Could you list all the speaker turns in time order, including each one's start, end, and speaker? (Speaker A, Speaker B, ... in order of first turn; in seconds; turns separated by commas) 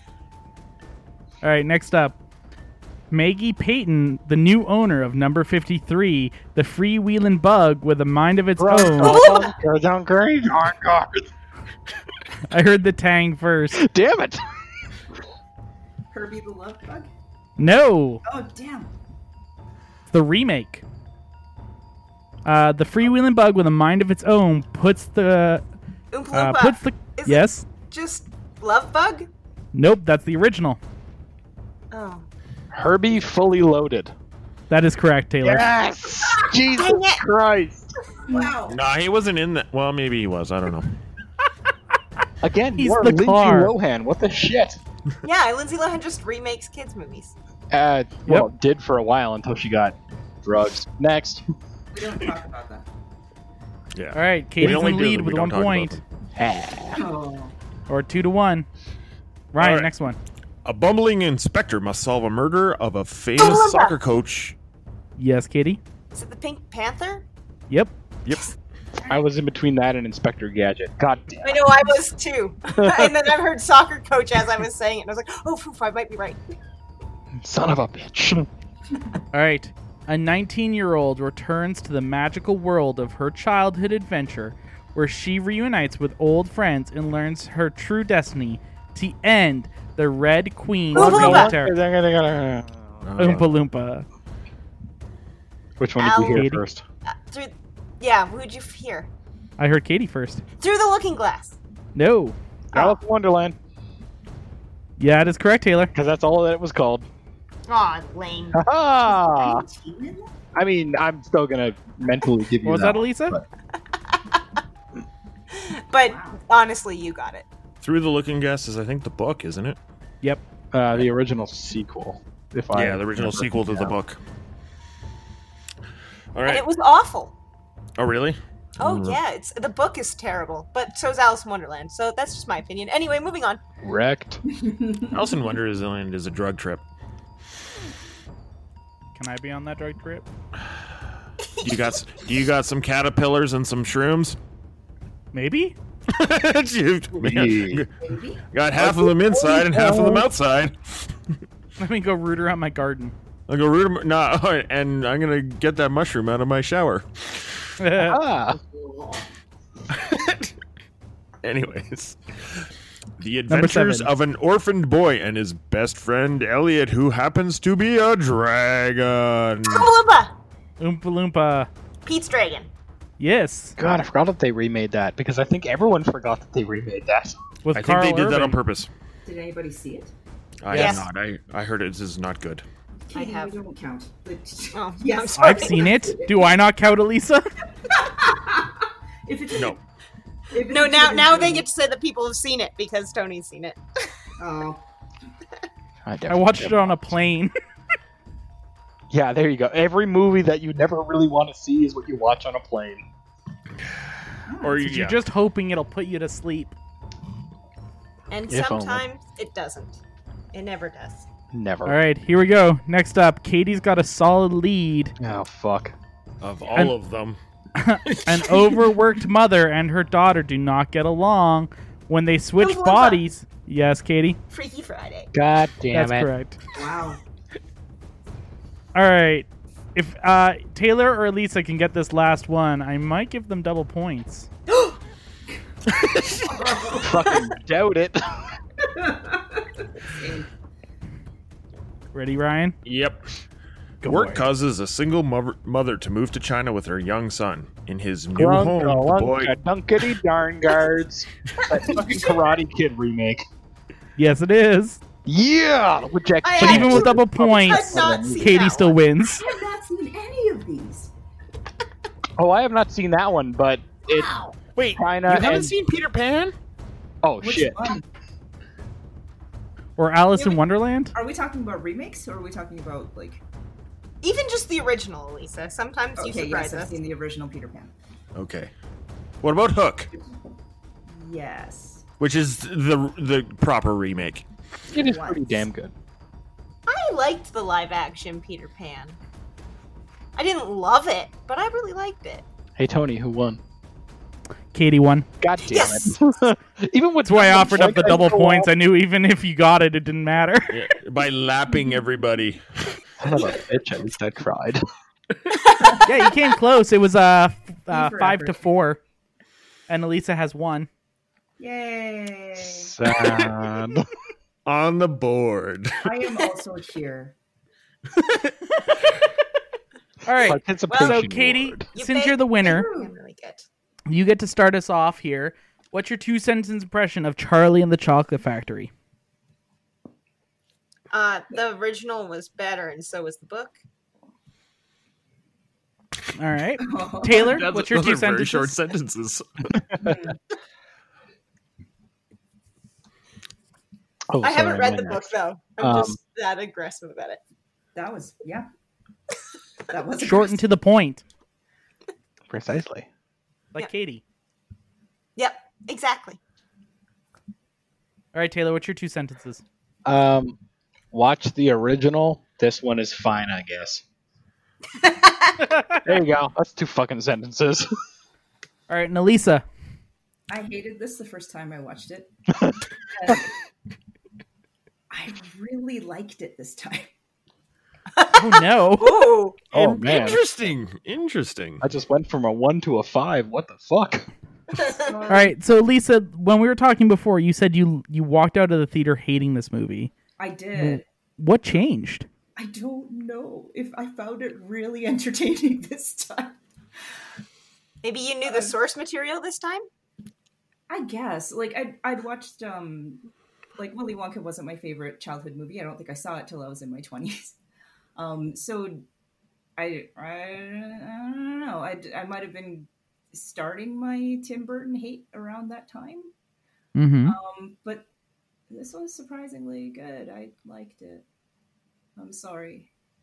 Speaker A: 1.4-2.2, Speaker A: 3.1-9.2, Speaker B: 8.6-11.3, Speaker C: 9.0-9.5, Speaker A: 12.5-13.8, Speaker B: 13.7-14.4, Speaker D: 16.1-17.1, Speaker A: 17.6-18.2, Speaker D: 18.2-18.9, Speaker A: 20.1-20.8, Speaker A: 22.4-25.6, Speaker C: 26.1-29.3, Speaker A: 26.3-27.7, Speaker A: 29.7-30.8, Speaker C: 31.9-32.3, Speaker B: 32.7-34.1, Speaker A: 34.7-35.7, Speaker B: 35.4-37.9, Speaker C: 36.7-37.2, Speaker D: 38.3-38.8, Speaker E: 38.7-40.9, Speaker B: 42.4-44.8, Speaker A: 42.8-43.7, Speaker C: 45.2-47.3, Speaker B: 47.7-51.5, Speaker D: 51.9-52.9, Speaker E: 54.0-56.0, Speaker A: 54.1-56.0, Speaker B: 56.4-57.0, Speaker D: 57.0-57.5, Speaker A: 57.9-58.7, Speaker A: 59.5-60.2, Speaker E: 59.6-59.9, Speaker E: 60.6-64.5, Speaker C: 63.4-64.0, Speaker A: 65.2-65.8, Speaker C: 66.1-67.2, Speaker B: 69.1-71.9, Speaker C: 71.4-76.4, Speaker B: 72.8-73.3, Speaker B: 77.4-78.5, Speaker A: 79.3-91.8, Speaker B: 90.9-93.0, Speaker C: 90.9-91.5, Speaker E: 93.0-93.5, Speaker A: 93.2-94.1, Speaker B: 95.8-96.8, Speaker C: 96.0-96.5, Speaker A: 96.3-96.6, Speaker C: 97.1-99.1, Speaker A: 99.6-100.4, Speaker C: 100.6-101.6, Speaker A: 102.0-102.4, Speaker B: 102.7-103.6, Speaker A: 105.0-105.9, Speaker B: 106.0-107.1, Speaker C: 107.7-108.6, Speaker B: 108.5-109.7, Speaker D: 109.1-110.3, Speaker B: 110.5-113.4, Speaker A: 112.6-113.4, Speaker C: 115.5-117.5, Speaker D: 116.0-116.4, Speaker E: 117.8-119.8, Speaker B: 120.7-124.0, Speaker E: 122.7-124.2, Speaker E: 126.3-126.7, Speaker C: 126.5-127.3, Speaker E: 128.0-129.2, Speaker C: 128.8-133.6, Speaker B: 133.8-134.4, Speaker D: 134.5-135.2, Speaker E: 135.1-136.8, Speaker A: 139.2-140.3, Speaker C: 141.6-142.0, Speaker E: 141.6-144.4, Speaker A: 145.3-145.8, Speaker E: 146.1-147.9, Speaker B: 147.2-147.9, Speaker D: 148.0-148.4, Speaker E: 148.5-151.2, Speaker B: 148.8-150.3, Speaker A: 151.8-153.2, Speaker E: 153.5-157.7, Speaker A: 157.8-158.2, Speaker B: 158.0-158.6, Speaker D: 158.8-159.2, Speaker E: 159.9-160.5, Speaker E: 161.4-162.7, Speaker E: 163.2-169.9, Speaker A: 163.5-164.1, Speaker C: 169.7-170.3, Speaker A: 170.8-171.7, Speaker C: 172.1-172.7, Speaker A: 173.2-173.8, Speaker B: 173.8-177.4, Speaker A: 177.6-178.6, Speaker E: 177.7-178.9, Speaker D: 179.2-180.1, Speaker E: 180.6-182.7, Speaker A: 180.7-181.0, Speaker C: 180.7-181.1, Speaker D: 183.1-186.5, Speaker C: 183.1-183.6, Speaker C: 184.7-185.9, Speaker A: 185.4-187.5, Speaker D: 187.9-189.8, Speaker E: 189.5-189.8, Speaker D: 190.5-191.7, Speaker C: 190.6-193.8, Speaker D: 194.4-194.8, Speaker B: 196.1-197.2, Speaker A: 196.3-197.5, Speaker B: 199.1-203.1, Speaker D: 204.5-204.8, Speaker E: 204.6-205.2, Speaker A: 204.8-206.8, Speaker C: 208.3-210.0, Speaker B: 208.5-209.0, Speaker C: 210.5-211.3, Speaker B: 211.5-212.0, Speaker A: 211.9-215.2, Speaker B: 215.2-215.9, Speaker E: 216.4-217.4, Speaker A: 217.8-224.4, Speaker E: 218.1-218.7, Speaker C: 222.6-223.2, Speaker C: 224.5-225.3, Speaker B: 225.3-226.3, Speaker A: 225.9-226.6, Speaker D: 226.7-227.2, Speaker A: 228.9-234.5, Speaker C: 234.7-235.0, Speaker E: 235.9-236.4, Speaker D: 236.4-237.5, Speaker B: 236.9-238.3, Speaker D: 238.8-240.5, Speaker A: 242.1-242.8, Speaker E: 242.8-243.2, Speaker A: 244.0-244.4, Speaker E: 244.1-249.5, Speaker B: 248.4-253.5, Speaker A: 254.2-255.0, Speaker B: 255.2-258.6, Speaker C: 256.4-259.0, Speaker A: 256.6-259.4, Speaker D: 259.3-261.1, Speaker B: 262.4-264.3, Speaker D: 264.1-264.5, Speaker E: 264.8-266.5, Speaker B: 265.0-265.8, Speaker B: 267.2-267.9, Speaker D: 267.4-268.1, Speaker A: 270.0-271.1, Speaker D: 270.4-270.6, Speaker D: 271.1-273.4, Speaker C: 274.2-277.0, Speaker D: 276.2-277.9, Speaker E: 278.4-278.7, Speaker E: 279.4-280.1, Speaker D: 281.1-282.1, Speaker E: 282.2-284.4, Speaker D: 284.9-285.7, Speaker B: 284.9-285.9, Speaker C: 286.9-289.2, Speaker C: 290.4-292.4, Speaker B: 292.8-293.6, Speaker A: 294.7-295.3, Speaker B: 295.4-298.7, Speaker C: 295.6-296.2, Speaker A: 297.3-300.8, Speaker E: 300.7-302.9, Speaker B: 303.2-304.8, Speaker D: 305.7-306.1, Speaker A: 306.1-309.0, Speaker D: 307.9-308.6, Speaker A: 309.9-310.9, Speaker D: 311.6-312.9, Speaker B: 312.6-314.1, Speaker E: 314.7-316.1, Speaker D: 316.0-317.3, Speaker A: 320.3-322.9, Speaker B: 320.4-321.9, Speaker C: 320.9-321.2, Speaker C: 321.9-323.7, Speaker D: 322.6-323.1, Speaker A: 324.1-328.9, Speaker C: 331.1-333.8, Speaker A: 336.4-338.8, Speaker D: 336.8-337.6, Speaker E: 337.4-339.8, Speaker D: 340.0-340.4, Speaker B: 344.3-346.2, Speaker C: 344.4-347.4, Speaker D: 347.9-348.7, Speaker D: 349.9-350.6, Speaker A: 350.2-351.2, Speaker B: 352.5-353.1, Speaker A: 353.7-354.2, Speaker C: 355.4-356.4, Speaker A: 358.3-359.6, Speaker B: 360.1-360.6, Speaker B: 361.1-364.0, Speaker C: 365.0-365.7, Speaker B: 366.1-367.9, Speaker A: 368.9-369.6, Speaker D: 370.5-372.3, Speaker D: 373.1-373.5, Speaker D: 375.1-377.1, Speaker C: 378.1-379.6, Speaker A: 378.3-379.3, Speaker B: 379.7-380.4, Speaker E: 379.7-381.8, Speaker B: 381.8-384.3, Speaker D: 384.8-385.5, Speaker A: 385.3-390.1, Speaker D: 390.4-391.0, Speaker A: 390.8-392.3, Speaker D: 392.6-396.6, Speaker C: 398.0-399.8, Speaker D: 398.4-398.8, Speaker D: 400.9-403.3, Speaker D: 403.8-407.6, Speaker D: 408.2-409.1, Speaker D: 409.8-416.3, Speaker A: 416.9-417.4, Speaker D: 417.2-418.1, Speaker D: 418.7-421.2, Speaker D: 422.2-422.9